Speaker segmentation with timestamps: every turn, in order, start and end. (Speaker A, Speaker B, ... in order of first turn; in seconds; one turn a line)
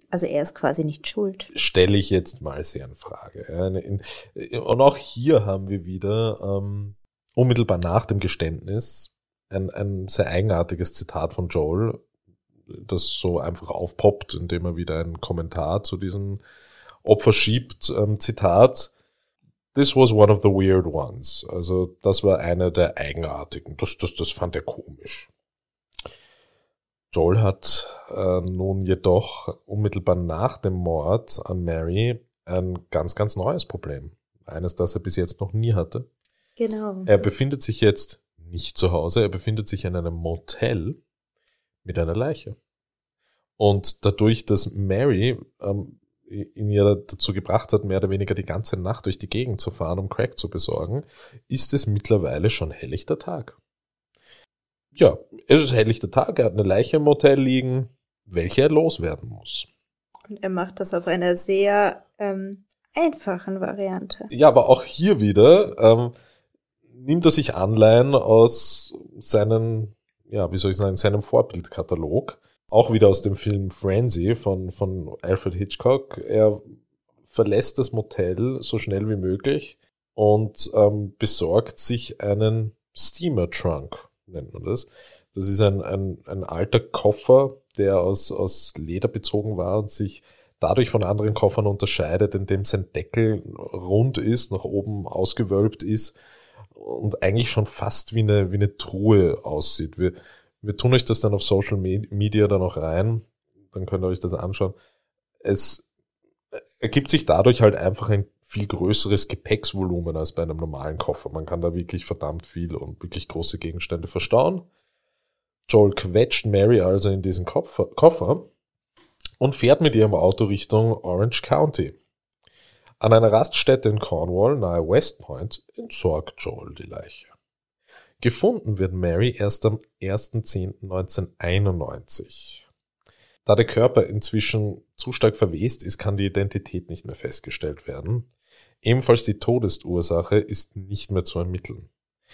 Speaker A: 0.1-1.5
Speaker B: 1.5-12.0
Speaker B: 12.7-16.4
Speaker B: 17.0-18.9
Speaker B: 19.7-25.3
Speaker B: 27.1-36.1
Speaker A: 36.6-37.1
Speaker B: 37.1-41.0
Speaker B: 41.8-42.6
Speaker B: 43.6-53.6
Speaker B: 55.0-59.7
Speaker A: 60.3-64.3
Speaker B: 64.3-66.1
Speaker B: 66.9-76.8
Speaker B: 77.3-96.2
Speaker B: 96.7-104.8
Speaker B: 105.4-105.8
Speaker B: 106.5-114.7
Speaker B: 115.7-118.5
Speaker B: 119.4-122.0
Speaker B: 123.0-127.3
Speaker B: 128.2-132.7
Speaker B: 133.5-138.3
Speaker B: 138.8-141.9